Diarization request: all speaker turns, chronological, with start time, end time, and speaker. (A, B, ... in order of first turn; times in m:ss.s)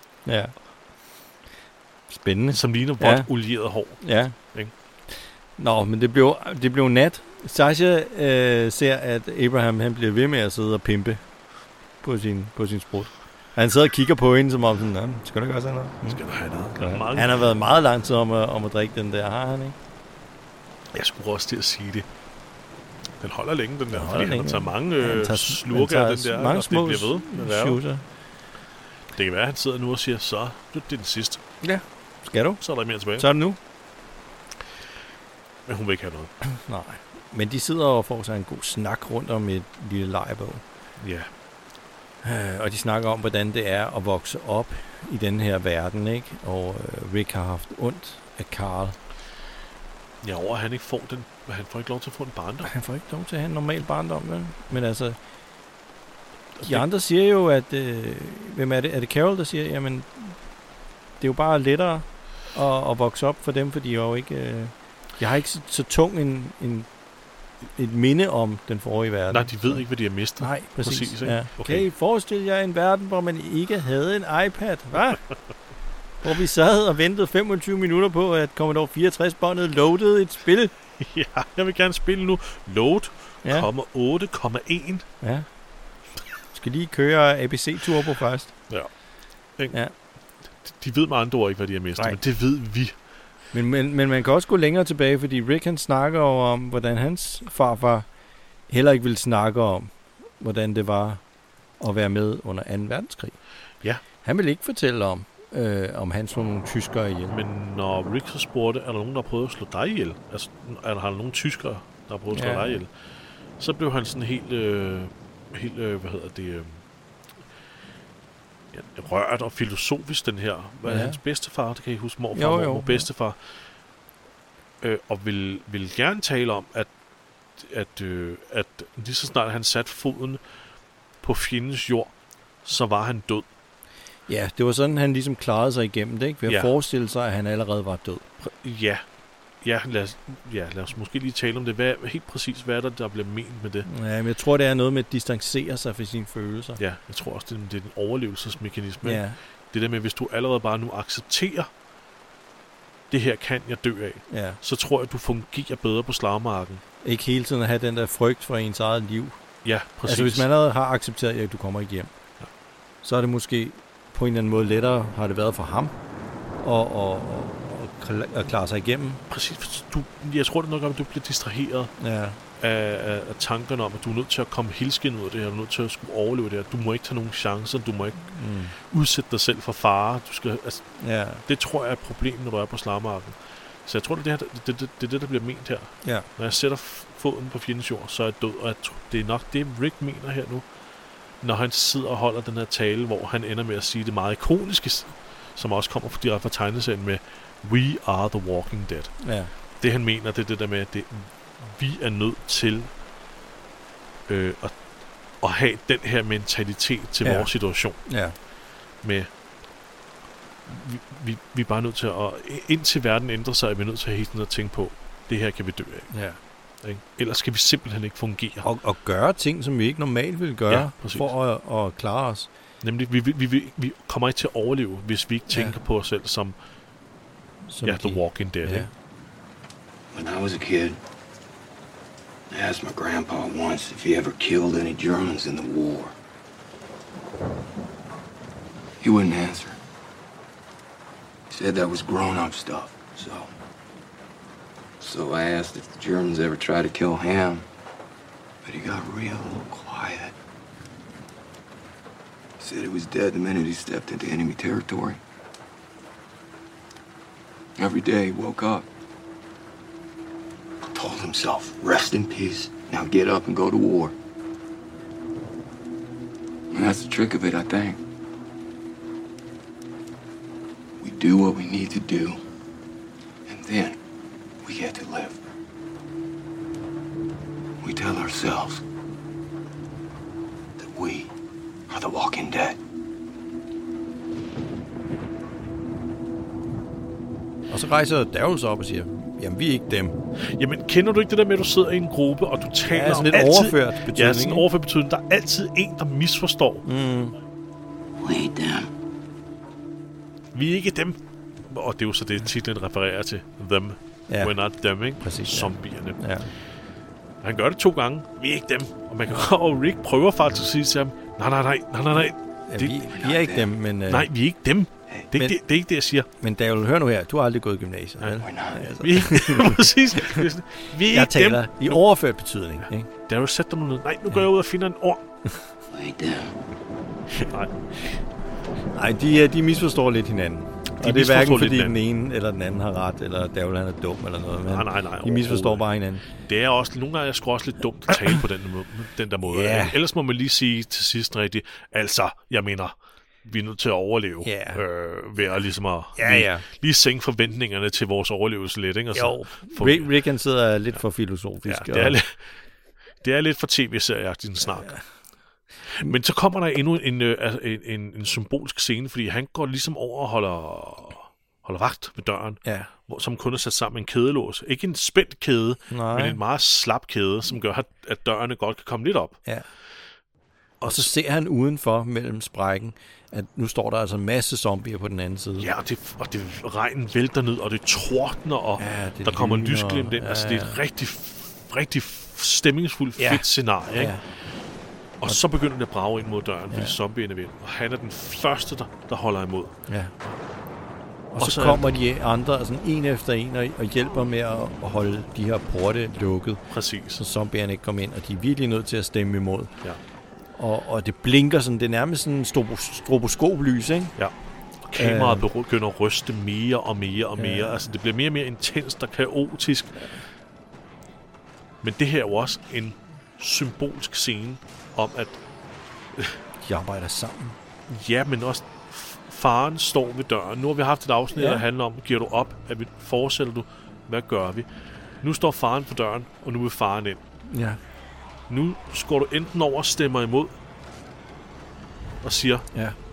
0:00.2-0:00.5 A
0:02.1-0:03.3 A
0:02.5-0:04.7 B
0:04.0-0:04.4 A
0:05.6-0:11.3 A
0:12.0-0:16.2 A
0:16.0-0:17.5 B
0:16.7-0:19.8 A
0:20.9-0:22.1 B
0:23.2-0:27.8 B
0:23.9-0:28.0 A
0:29.1-0:31.4 B
0:31.6-0:33.6 A
0:32.6-0:33.3 B
0:35.7-0:36.3 B
0:36.5-0:40.6 A
0:41.0-0:41.3 B
0:42.2-0:49.0 A
0:50.2-0:52.7 B
0:52.6-0:55.2 A
0:56.6-0:56.8 B
0:56.6-1:00.4 A
1:01.2-1:06.9 A
1:07.8-1:15.3 A
1:09.3-1:11.9 B
1:16.2-1:20.7 A
1:21.0-1:25.1 B
1:25.2-1:25.5 A
1:26.5-1:28.6 A
1:30.6-1:33.0 B
1:33.5-1:38.1 A
1:38.7-1:41.2 A
1:41.8-1:43.4 A
1:44.1-1:47.4 A
1:47.3-1:52.9 B
1:52.3-1:52.8 A
1:53.6-1:56.8 B
1:58.7-2:03.6 B
2:00.8-2:01.2 A
2:02.3-2:03.1 A
2:04.8-2:06.9 B
2:07.6-2:10.6 B
2:11.2-2:13.5 B
2:14.3-2:18.3 A
2:16.5-2:16.7 B
2:18.4-2:19.1 B
2:19.6-2:23.9 B
2:23.9-2:26.8 A
2:26.8-2:31.7 B
2:29.0-2:29.4 A
2:33.1-2:36.8 B
2:34.3-2:34.6 A
2:37.0-2:42.1 A
2:39.6-2:40.5 B
2:43.0-2:46.0 A
2:46.6-2:49.2 A
2:49.3-2:51.9 B
2:52.0-2:52.4 A
2:52.6-3:10.7 B
2:58.3-2:58.7 A
3:01.0-3:01.4 A
3:11.4-3:22.9 B
3:19.2-3:19.5 A
3:24.3-3:24.8 B
3:25.4-3:28.1 B
3:27.2-3:28.4 A
3:29.0-3:29.3 B
3:30.7-3:36.2 B
3:36.1-3:36.4 A
3:36.8-3:38.7 B
3:38.6-3:42.5 A
3:40.7-3:41.3 B
3:42.8-3:46.6 B
3:45.5-3:45.8 A
3:47.7-3:48.9 A
3:47.8-3:48.9 B
3:50.1-3:51.0 C
3:52.5-3:56.2 C
3:59.0-3:59.8 C
4:01.5-4:03.5 C
4:05.0-4:07.7 C
4:08.6-4:10.3 C
4:12.6-4:15.2 C
4:17.8-4:18.9 C
4:20.9-4:24.2 C
4:26.7-4:28.0 C
4:31.0-4:32.4 C
4:33.5-4:34.0 C
4:34.6-4:35.4 C
4:37.8-4:38.8 C
4:40.8-4:41.3 C
4:41.9-4:42.8 C
4:47.7-4:50.2 A
4:50.4-4:56.9 B
4:52.9-4:54.7 A
4:56.8-4:57.4 A
4:58.2-4:58.9 C
5:00.5-5:06.3 B
5:04.3-5:04.5 A
5:05.2-5:06.5 A
5:07.4-5:13.1 B
5:12.1-5:14.3 A
5:13.2-5:13.7 C
5:14.1-5:16.3 B
5:16.3-5:20.4 A
5:18.2-5:22.0 B
5:18.4-5:18.8 C
5:21.0-5:23.1 A
5:23.3-5:25.2 B
5:25.9-5:26.6 C
5:27.5-5:27.7 B
5:28.9-5:36.2 A
5:30.9-5:32.0 B
5:34.6-5:50.1 B
5:39.4-5:40.0 A
5:44.4-5:44.8 A
5:46.2-5:46.6 A
5:49.1-5:52.2 A
5:51.6-5:52.6 B
5:53.2-5:55.0 B
5:54.6-5:55.0 A
5:55.8-6:09.4 B
6:02.6-6:02.9 A
6:05.9-6:06.4 A
6:10.8-6:11.1 B
6:10.8-6:15.7 A
6:15.6-6:24.2 B
6:18.8-6:20.8 A
6:23.2-6:24.2 A
6:25.2-6:29.8 B
6:26.7-6:27.0 A
6:29.9-6:30.1 A
6:31.3-6:39.7 A
6:31.4-6:31.9 B
6:36.7-6:37.2 B
6:40.5-6:44.2 A
6:44.2-6:50.2 B
6:45.0-6:45.5 A
6:47.4-6:47.9 A
6:51.8-6:55.4 B
6:56.6-6:57.6 A
6:57.9-7:07.2 B
7:01.3-7:01.6 A
7:07.5-7:07.8 A
7:08.5-7:10.6 B
7:12.2-7:12.7 B
7:12.7-7:13.0 A